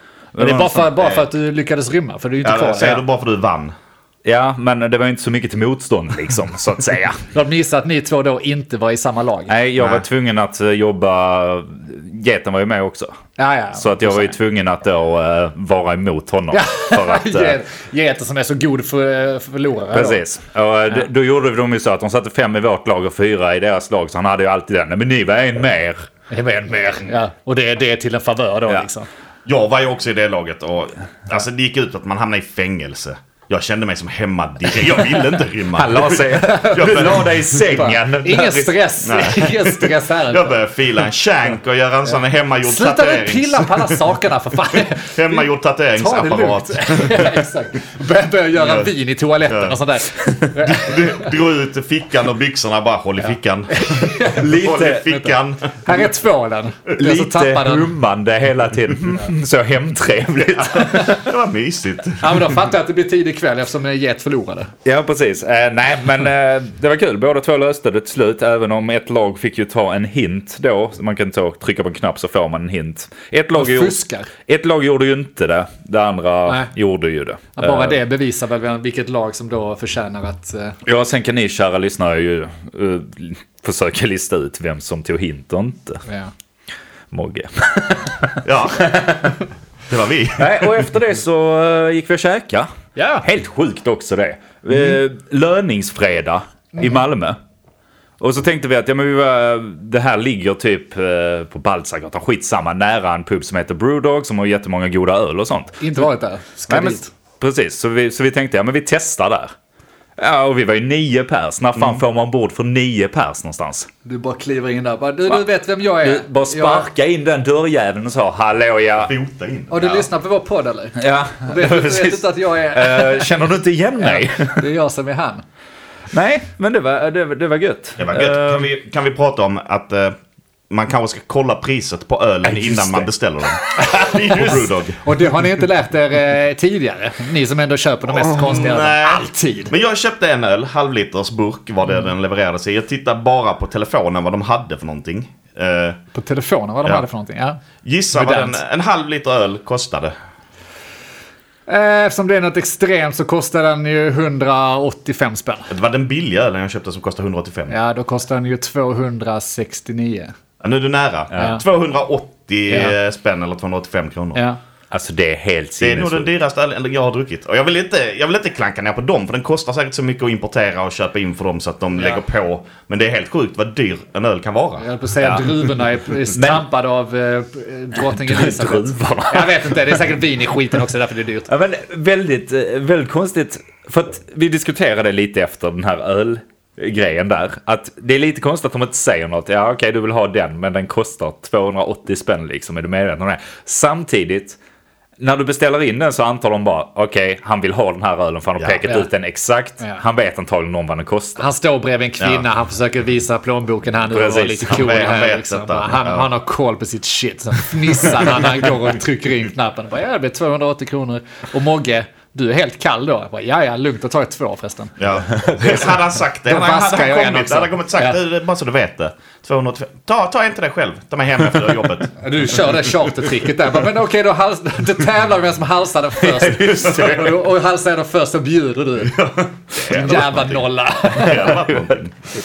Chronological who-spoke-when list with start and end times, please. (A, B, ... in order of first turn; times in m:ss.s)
0:00.3-0:00.9 A
0:00.4-0:03.0 B
0:01.0-0:01.2 C
0:02.4-0:03.7 C
0:04.2-0:07.2 A
0:07.3-0:09.5 B
0:09.5-0:13.2 A
0:13.4-0:14.4 B
0:13.7-0:17.6 A
0:16.5-0:20.2 B
0:19.9-0:26.1 A
0:26.3-0:29.1 B
0:29.4-0:37.6 C
0:35.7-0:38.8 A
0:36.4-0:37.1 B
0:37.7-0:40.6 B
0:39.0-0:44.0 C
0:42.6-0:51.3 B
0:44.8-0:47.5 C
0:48.6-0:48.9 C
0:49.5-0:56.0 C
0:53.7-0:54.6 B
0:54.3-0:55.2 A
0:55.8-0:57.9 B
0:57.0-1:01.3 A
1:00.6-1:02.6 C
1:02.2-1:04.7 B
1:04.8-1:18.0 A
1:13.5-1:14.3 B
1:17.6-1:20.8 B
1:20.8-1:26.0 A
1:26.0-1:26.3 B
1:27.1-1:29.4 A
1:28.4-1:29.3 C
1:29.9-1:30.8 C
1:30.4-1:32.7 A
1:33.0-1:33.2 B
1:33.2-1:37.4 A
1:36.7-1:37.0 B
1:38.2-1:46.0 A
1:45.8-1:47.1 B
1:46.7-1:49.5 A
1:50.2-1:53.9 A
1:51.8-1:52.0 C
1:54.0-1:56.9 B
1:56.0-1:59.1 A
1:59.0-2:00.1 C
1:59.7-2:03.4 B
2:01.0-2:04.6 A
2:04.0-2:05.4 B
2:06.1-2:08.6 A
2:08.0-2:10.2 C
2:10.7-2:15.0 C
2:12.4-2:13.1 A
2:13.6-2:14.5 A
2:15.0-2:19.7 B
2:18.1-2:26.0 C
2:26.1-2:27.6 B
2:27.8-2:30.1 C
2:28.1-2:28.6 B
2:31.7-2:35.7 B
2:35.7-2:37.8 C
2:37.7-2:40.3 B
2:40.6-2:44.4 C
2:41.3-2:41.6 A
2:41.4-2:41.6 B
2:42.7-2:42.9 B
2:44.9-2:46.3 A
2:45.8-2:54.9 C
2:54.8-3:01.5 B
2:55.2-2:55.5 A
2:55.4-2:55.7 C
2:56.3-2:56.6 A
2:58.1-2:59.9 A
3:01.5-3:14.6 A
3:15.2-3:21.4 A
3:21.4-3:35.0 B
3:22.2-3:22.4 C
3:24.1-3:24.9 A
3:24.7-3:26.3 C
3:35.0-3:42.1 C
3:35.6-3:38.2 B
3:42.2-3:51.6 B
3:46.2-3:47.4 A
3:49.2-3:52.1 C
3:51.2-3:52.0 A